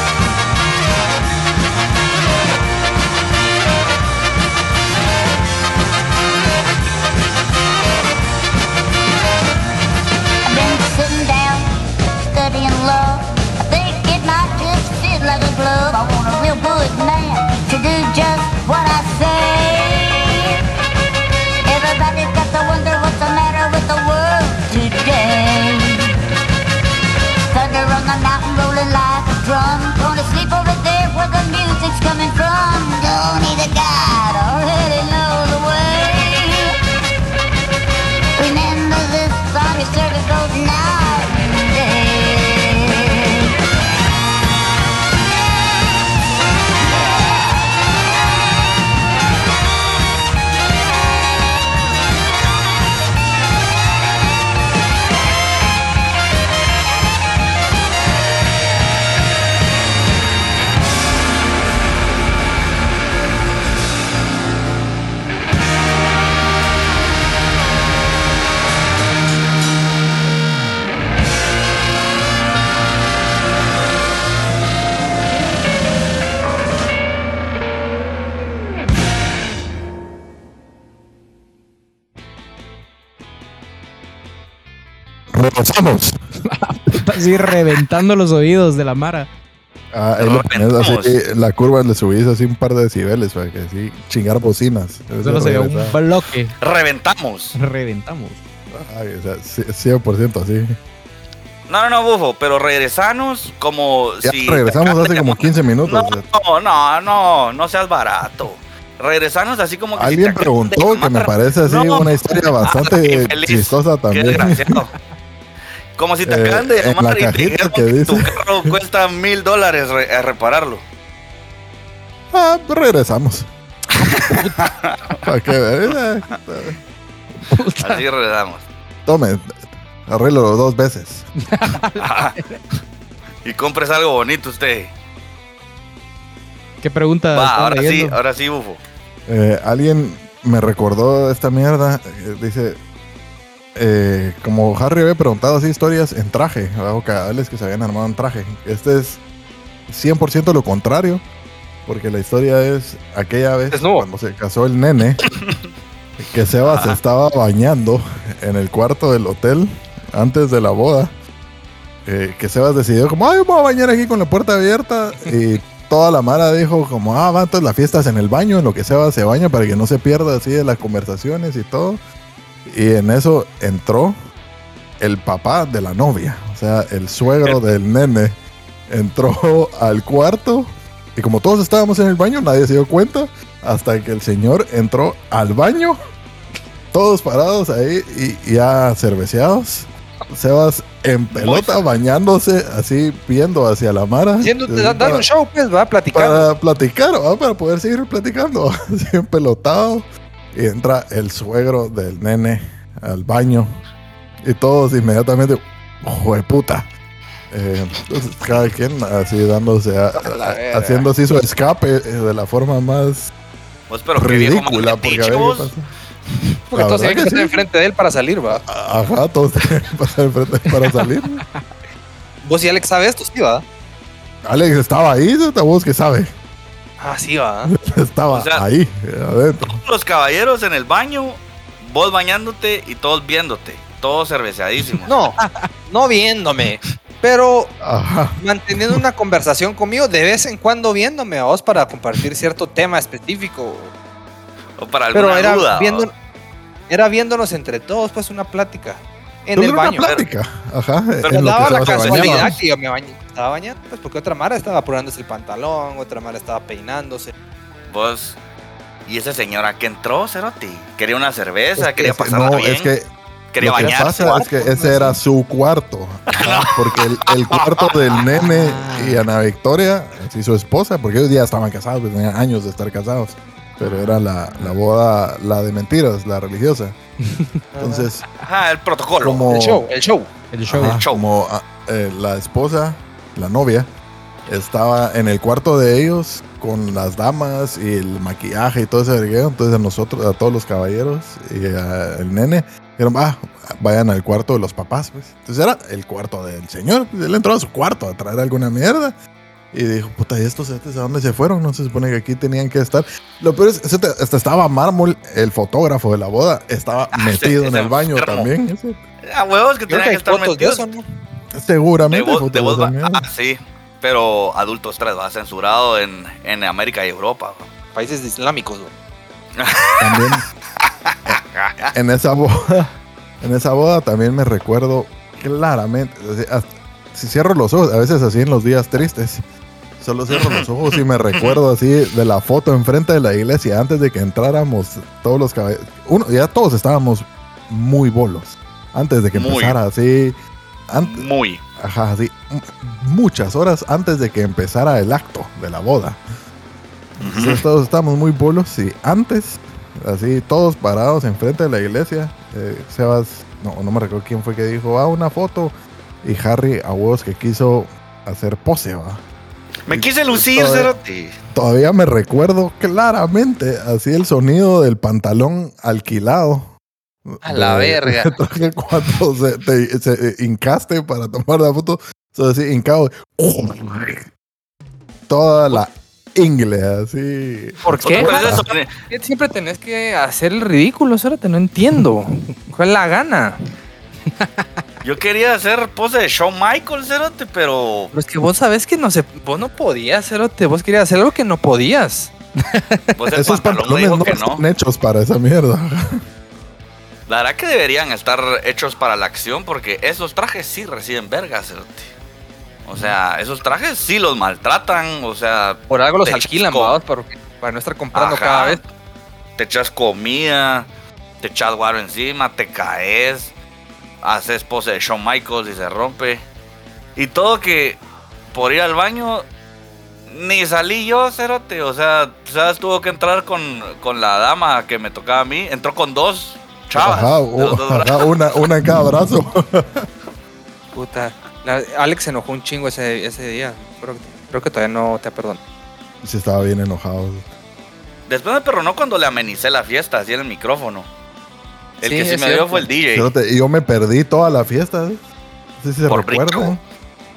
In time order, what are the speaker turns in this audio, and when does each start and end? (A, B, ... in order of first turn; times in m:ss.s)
0:10.4-0:20.6 A
0:21.7-0:26.1 A
0:27.5-0:36.7 A
0:38.4-0:43.4 A
1:25.3-1:26.2 B
1:26.5-1:29.3 C
1:29.9-1:36.0 B
1:30.2-1:31.2 D
1:35.2-1:36.5 C
1:36.6-1:37.6 D
1:37.6-1:38.4 C
1:38.7-1:40.8 B
1:41.7-1:54.9 D
1:44.2-1:46.2 B
1:50.0-1:54.8 B
1:56.0-2:00.8 D
1:56.2-1:58.7 B
2:02.3-2:03.5 B
2:04.0-2:04.7 C
2:04.6-2:05.1 D
2:05.2-2:06.8 B
2:07.5-2:08.0 C
2:07.8-2:08.6 D
2:09.1-2:11.3 B
2:11.5-2:12.6 C
2:12.0-2:12.4 D
2:13.4-2:14.9 D
2:16.8-2:18.2 C
2:17.3-2:18.8 D
2:19.3-2:22.8 B
2:23.8-2:29.2 B
2:29.9-2:31.2 B
2:31.9-2:35.2 B
2:33.7-2:34.1 E
2:36.2-2:41.1 B
2:36.6-2:37.0 D
2:42.0-2:52.0 B
2:52.6-2:54.2 B
2:55.0-3:06.0 B
3:06.9-3:15.3 B
3:11.3-3:11.9 D
3:14.4-3:16.5 E
3:16.1-3:23.7 B
3:24.4-3:26.9 B
3:27.5-3:33.3 B
3:30.2-3:31.1 D
3:33.9-3:35.7 D
3:34.2-3:35.9 B
3:36.7-3:37.6 B
3:36.7-3:38.6 E
3:38.6-3:41.4 B
3:42.4-3:43.6 E
3:44.4-3:46.3 B
3:47.0-3:47.7 E
3:47.7-3:49.8 B
3:48.3-3:48.6 D
3:49.7-3:55.1 D
3:55.1-3:57.7 E
3:57.8-3:59.0 B
3:58.4-4:03.9 E
4:04.8-4:06.1 D
4:05.1-4:06.1 E
4:06.9-4:10.1 E
4:09.6-4:12.6 B
4:10.0-4:10.2 D
4:11.2-4:12.4 D
4:11.3-4:17.3 E
4:17.9-4:18.4 D
4:19.1-4:22.9 D
4:21.8-4:37.0 B
4:23.5-4:24.5 D
4:23.8-4:25.1 E
4:26.3-4:28.2 D
4:28.3-4:29.2 C
4:37.2-4:37.6 C
4:37.8-4:38.0 E
4:37.8-4:38.2 B
4:38.4-4:39.5 D
4:39.2-4:39.9 B
4:39.5-4:40.5 E
4:40.5-4:41.0 C
4:40.7-4:43.9 B
4:40.8-4:41.2 D
4:44.5-4:59.2 B
4:59.7-5:09.0 B
5:07.1-5:08.5 D
5:09.2-5:10.8 D
5:09.9-5:11.0 E
5:11.5-5:13.3 B
5:12.1-5:17.7 D
5:18.0-5:18.9 E
5:19.6-5:20.4 D
5:20.0-5:20.5 B
5:21.1-5:21.9 D
5:21.9-5:22.9 B
5:23.4-5:29.4 B
5:30.0-5:40.4 B
5:30.3-5:31.6 D
5:39.4-5:39.8 D
5:40.9-5:46.2 B
5:41.0-5:41.6 D
5:47.2-5:47.6 D
5:47.2-5:59.2 B
5:59.9-6:01.4 D
5:59.9-6:00.9 B
6:01.5-6:06.8 B
6:07.3-6:14.3 B
6:07.4-6:08.4 E
6:15.3-6:18.7 B
6:17.8-6:23.6 E
6:18.0-6:18.9 D
6:24.4-6:24.7 C
6:25.0-6:28.1 D
6:28.1-6:32.3 E
6:32.7-6:33.0 C
6:33.2-6:34.6 D
6:33.3-6:36.2 B
6:37.3-6:42.1 D
6:42.9-6:47.0 D
6:45.9-6:48.8 E
6:48.1-6:48.9 D
6:49.6-6:50.9 D
6:51.4-6:53.5 D
6:54.2-6:56.4 D
6:57.2-6:58.0 D
6:58.5-6:59.5 D
7:00.3-7:08.7 D
7:07.0-7:10.1 B
7:11.0-7:15.6 E
7:16.2-7:17.5 B
7:18.3-7:21.1 D
7:22.0-7:23.3 D
7:22.0-7:22.9 E
7:23.1-7:25.2 B
7:25.8-7:26.8 B
7:26.1-7:26.7 D